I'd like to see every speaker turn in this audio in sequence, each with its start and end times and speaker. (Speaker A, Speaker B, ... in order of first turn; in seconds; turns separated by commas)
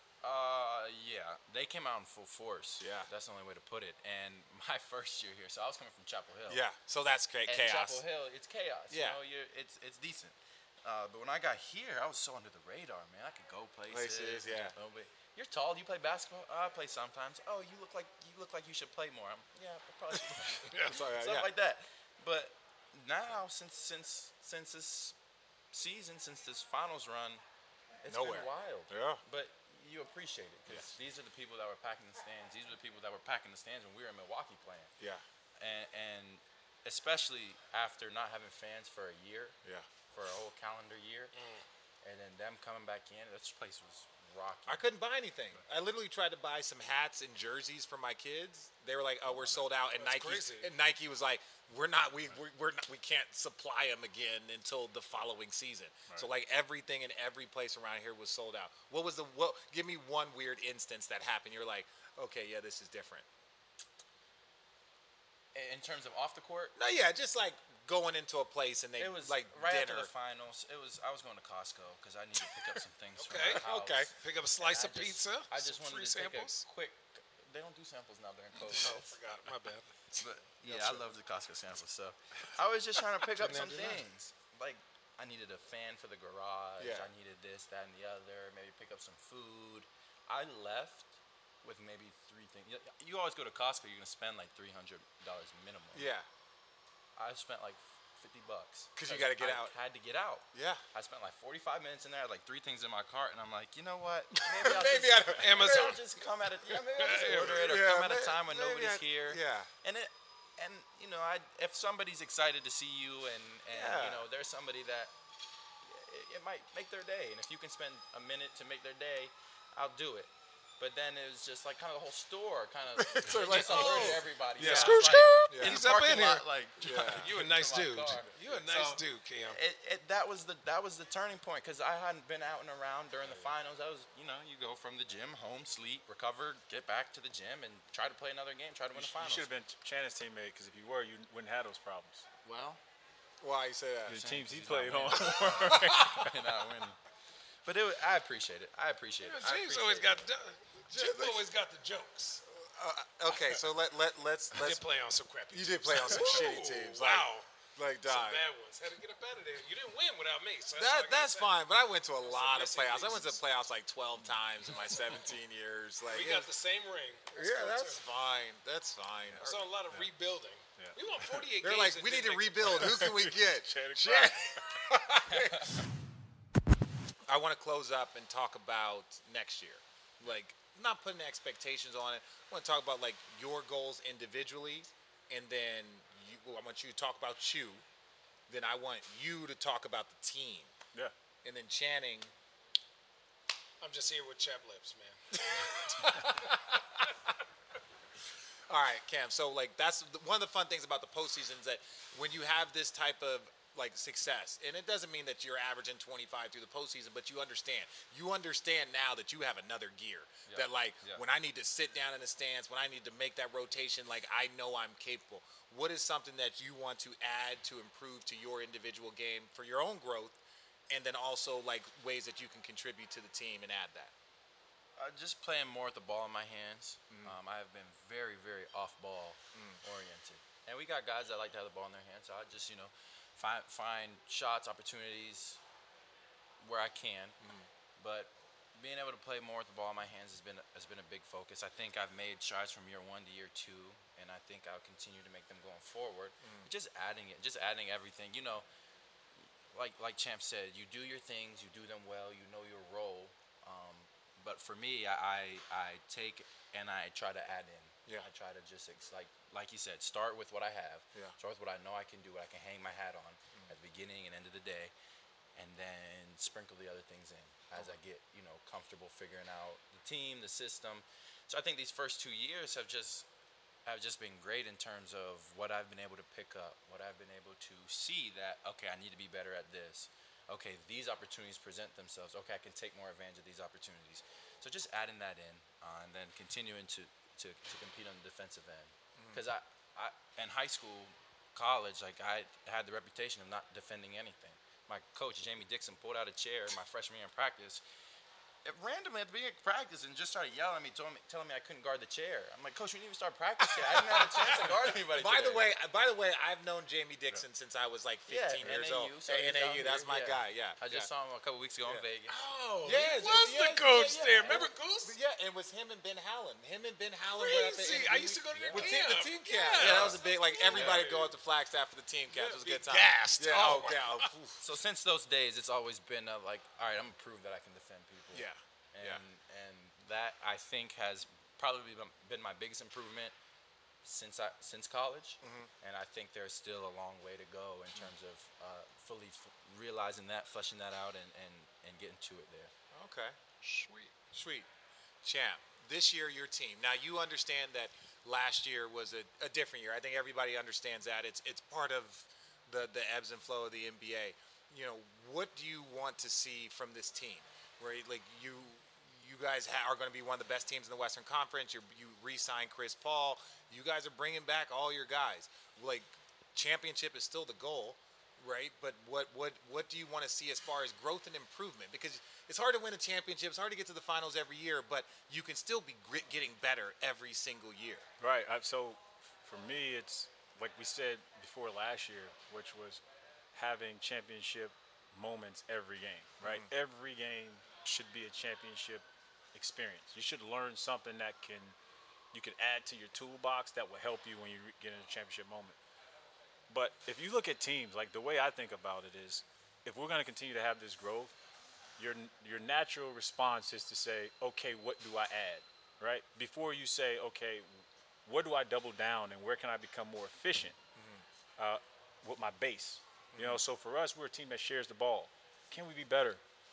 Speaker A: 0.2-6.6, Speaker B: 2.8-3.1, Speaker B: 6.5-8.0, Speaker A: 7.5-25.2, Speaker B: 8.9-9.2, Speaker B: 13.9-14.7, Speaker C: 20.7-20.9, Speaker B: 20.8-21.5, Speaker A: 25.7-27.4, Speaker A: 28.0-34.9, Speaker B: 28.1-29.2, Speaker A: 35.6-39.6, Speaker A: 40.1-41.3, Speaker C: 41.4-41.6, Speaker A: 42.0-44.9, Speaker B: 44.7-63.2, Speaker C: 50.0-50.7, Speaker A: 65.5-66.7, Speaker B: 66.8-70.1, Speaker A: 69.0-79.1, Speaker C: 73.2-76.7, Speaker C: 78.8-80.0, Speaker A: 80.2-96.1, Speaker B: 80.2-81.0, Speaker C: 83.3-84.0, Speaker B: 86.8-87.1, Speaker B: 95.9-96.2, Speaker A: 97.2-115.1, Speaker B: 98.9-99.7, Speaker B: 100.5-100.8, Speaker B: 104.4-106.0, Speaker C: 105.4-106.0, Speaker C: 106.7-107.7, Speaker B: 107.3-109.7, Speaker B: 113.7-114.2, Speaker A: 115.8-139.5, Speaker B: 123.0-125.8, Speaker C: 123.6-129.6, Speaker B: 126.8-127.3, Speaker D: 138.9-142.2, Speaker A: 142.4-142.8, Speaker B: 143.4-144.2, Speaker D: 144.1-146.5, Speaker A: 144.1-147.0, Speaker B: 145.5-146.3, Speaker A: 147.6-150.3, Speaker C: 149.2-152.4, Speaker B: 150.9-151.4, Speaker B: 152.5-154.8, Speaker C: 154.5-157.5, Speaker B: 155.5-158.4, Speaker C: 158.0-161.6, Speaker B: 160.7-166.5, Speaker C: 162.2-163.4, Speaker D: 164.8-165.1, Speaker C: 166.1-168.0, Speaker B: 167.3-169.6, Speaker D: 169.2-170.1, Speaker C: 169.4-172.9, Speaker D: 170.8-171.3, Speaker B: 171.6-175.8, Speaker D: 172.7-174.6, Speaker A: 175.3-175.8, Speaker B: 177.2-187.8, Speaker B: 188.5-190.7, Speaker B: 191.4-192.3, Speaker C: 193.8-195.7, Speaker B: 195.3-197.1, Speaker B: 198.7-224.1, Speaker A: 210.5-211.2, Speaker A: 225.0-235.6, Speaker B: 229.5-229.8, Speaker A: 236.6-237.4, Speaker B: 237.4-237.7, Speaker A: 238.0-248.6, Speaker B: 246.4-246.7, Speaker A: 249.4-264.9, Speaker A: 265.5-273.3, Speaker A: 273.9-297.8, Speaker B: 289.2-289.4, Speaker A: 298.6-305.6, Speaker B: 303.8-311.1, Speaker A: 308.3-312.4, Speaker C: 312.3-315.1, Speaker B: 312.8-324.6, Speaker C: 317.3-321.3, Speaker A: 318.6-318.8, Speaker A: 319.8-320.2, Speaker A: 320.7-321.1, Speaker C: 322.3-324.4, Speaker A: 323.5-324.0, Speaker A: 324.5-333.3, Speaker B: 328.3-329.2, Speaker A: 334.0-342.7, Speaker B: 335.4-335.7, Speaker B: 342.9-344.7, Speaker B: 345.2-378.1, Speaker D: 378.2-383.0, Speaker D: 383.5-391.8, Speaker B: 386.4-386.7, Speaker D: 392.3-395.8, Speaker D: 396.7-401.4, Speaker D: 402.0-410.8, Speaker B: 411.0-411.2, Speaker D: 411.6-416.4, Speaker B: 413.3-413.6